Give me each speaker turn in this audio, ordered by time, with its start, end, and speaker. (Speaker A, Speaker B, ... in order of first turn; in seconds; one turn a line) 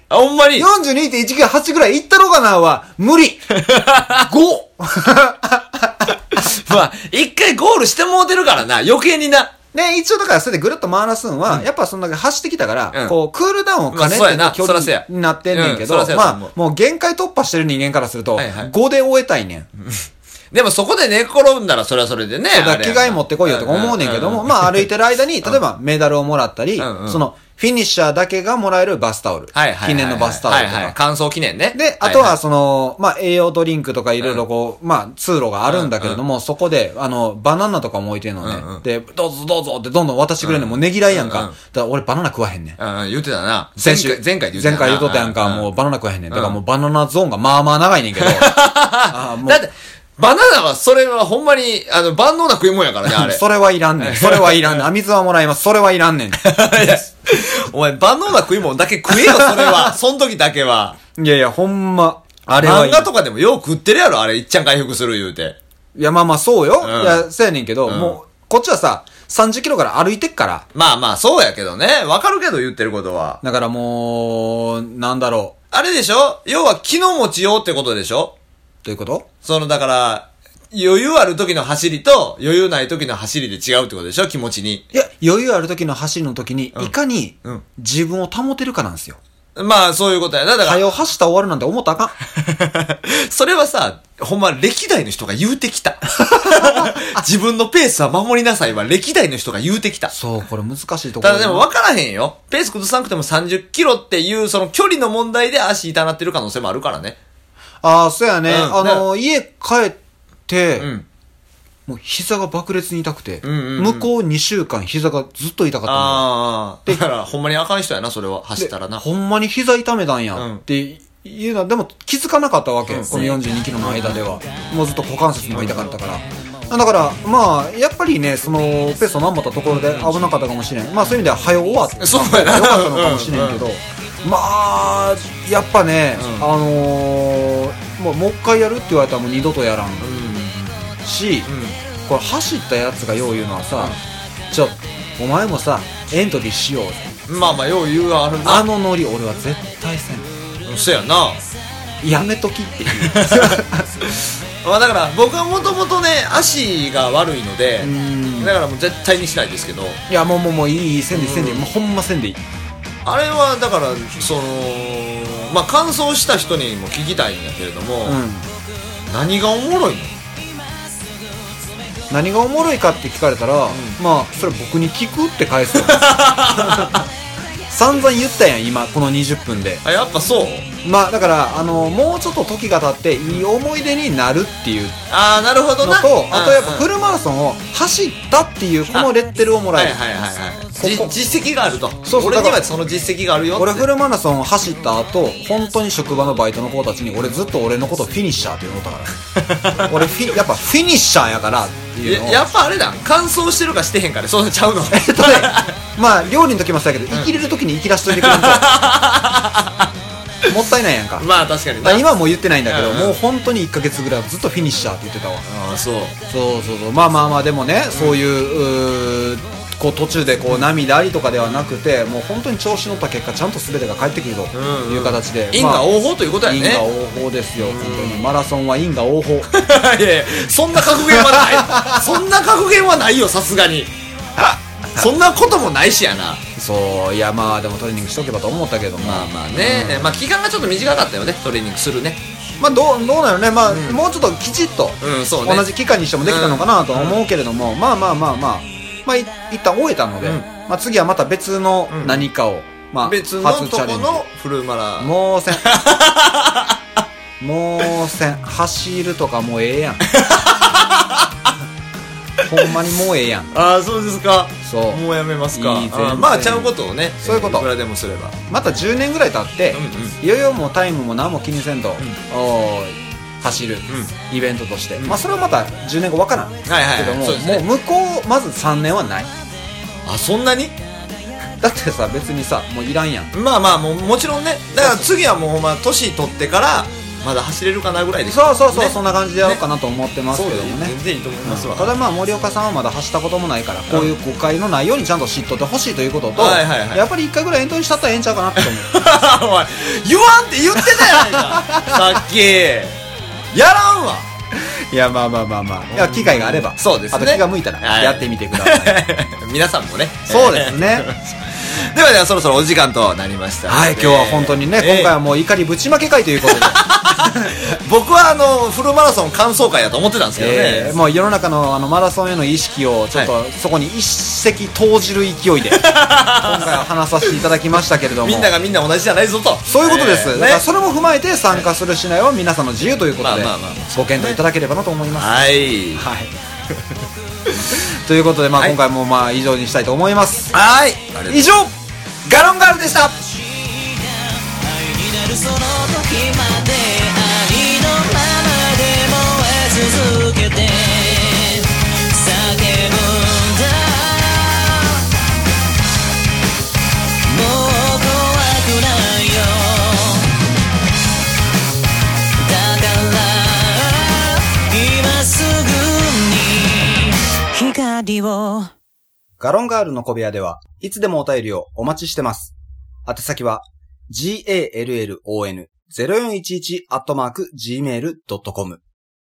Speaker A: 0.1-0.7
Speaker B: 0.6-3.4
Speaker A: 3.5-4.3
Speaker B: 4.2-6.1
Speaker A: 6.3-9.5
Speaker B: 9.7-19.7
Speaker A: 13.9-16.5
Speaker A: 18.4-18.7
Speaker A: 19.8-24.9
Speaker B: 22.5-31.0
Speaker A: 26.8-27.2
Speaker A: 29.5-32.4
Speaker B: 31.7-42.8
Speaker A: 35.7-36.2
Speaker A: 38.4-38.8
Speaker A: 40.4-41.5
Speaker A: 42.8-45.7
Speaker B: 43.8-49.6
Speaker A: 46.3-46.6
Speaker A: 48.2-53.4
Speaker B: 53.1-56.5
Speaker A: 54.0-54.9
Speaker A: 56.4-61.0
Speaker B: 59.1-59.9
Speaker B: 61.2-63.1
Speaker A: 62.5-65.6
Speaker B: 66.0-70.7
Speaker A: 66.8-67.3
Speaker A: 67.9-68.2
Speaker A: 70.7-73.4
Speaker B: 73.4-75.5
Speaker A: 75.7-78.3
Speaker B: 78.8-79.3
Speaker A: 79.4-84.8
Speaker B: 84.9-89.2
Speaker A: 89.6-90.8
Speaker B: 90.6-92.2
Speaker A: 92.3-100.1
Speaker B: 96.2-97.0
Speaker B: 100.1-101.7
Speaker A: 101.2-107.2
Speaker B: 107.8-110.9
Speaker A: 108.5-109.0
Speaker A: 110.8-111.1
Speaker B: 111.9-116.3
Speaker A: 113.4-114.1
Speaker A: 115.9-119.0
Speaker B: 118.6-140.2
Speaker A: 120.3-120.6
Speaker A: 122.9-124.2
Speaker A: 125.5-125.9
Speaker A: 129.7-130.3
Speaker A: 132.0-133.7
Speaker A: 136.2-136.5
Speaker A: 140.0-140.9
Speaker B: 141.0-141.5
Speaker A: 141.5-141.8
Speaker B: 142.1-144.0
Speaker B: 144.5-147.1
Speaker A: 147.3-148.7
Speaker B: 148.4-150.3
Speaker A: 150.7-151.4
Speaker B: 152.0-153.9
Speaker A: 153.0-154.1
Speaker A: 154.6-160.0
Speaker B: 157.8-158.6
Speaker B: 160.1-162.4
Speaker A: 161.1-161.7
Speaker A: 163.1-168.2
Speaker B: 168.1-168.5
Speaker A: 169.1-170.2
Speaker B: 172.1-177.0
Speaker A: 173.7-174.0
Speaker A: 175.7-177.1
Speaker B: 177.7-179.8
Speaker A: 179.8-180.7
Speaker B: 180.8-185.0
Speaker A: 185.1-186.9
Speaker B: 185.8-190.0
Speaker A: 189.8-193.9
Speaker B: 190.8-191.1
Speaker B: 192.1-192.7
Speaker B: 193.6-199.2
Speaker A: 199.4-200.1
Speaker B: 199.7-202.5
Speaker A: 202.0-205.8
Speaker B: 204.9-208.7
Speaker A: 208.1-209.9
Speaker B: 210.5-211.3
Speaker A: 211.2-212.1
Speaker B: 211.8-215.5
Speaker A: 212.7-213.2
Speaker A: 215.5-216.2
Speaker B: 216.3-225.9
Speaker A: 217.9-218.2
Speaker A: 224.5-226.8
Speaker B: 226.4-229.5
Speaker A: 227.6-228.3
Speaker A: 229.5-233.9
Speaker B: 231.0-232.1
Speaker A: 235.0-236.4
Speaker B: 236.6-240.2
Speaker A: 239.0-242.2
Speaker B: 242.6-254.2
Speaker A: 243.7-244.0
Speaker A: 245.0-245.7
Speaker A: 246.2-247.2
Speaker A: 250.2-250.5
Speaker A: 251.9-252.3
Speaker A: 253.0-257.0
Speaker B: 255.0-255.7
Speaker B: 257.4-260.1
Speaker A: 260.0-261.5
Speaker B: 262.4-263.5
Speaker A: 263.5-268.4
Speaker B: 264.6-267.7
Speaker B: 268.5-279.3
Speaker A: 269.7-270.2
Speaker A: 276.7-277.7
Speaker A: 280.1-280.8
Speaker B: 281.6-283.3
Speaker A: 283.3-289.6
Speaker B: 284.8-285.1
Speaker B: 288.3-299.0
Speaker A: 290.3-292.0
Speaker A: 296.4-297.0
Speaker A: 298.6-303.0
Speaker B: 300.8-302.2
Speaker A: 303.5-304.3
Speaker B: 304.6-309.0
Speaker A: 305.9-315.1
Speaker B: 310.3-311.1
Speaker B: 313.7-317.6
Speaker A: 316.4-321.0
Speaker B: 320.4-328.6
Speaker A: 325.7-327.4
Speaker A: 328.0-330.6
Speaker B: 329.7-335.3
Speaker A: 333.2-334.4
Speaker A: 335.1-336.1
Speaker B: 335.9-336.3
Speaker B: 337.9-340.5
Speaker A: 340.5-341.5
Speaker B: 341.3-341.7
Speaker B: 342.3-343.2
Speaker C: 343.6-355.0
Speaker C: 357.3-360.3
Speaker C: 362.4-368.7
Speaker B: 369.4-372.5
Speaker B: 373.1-378.8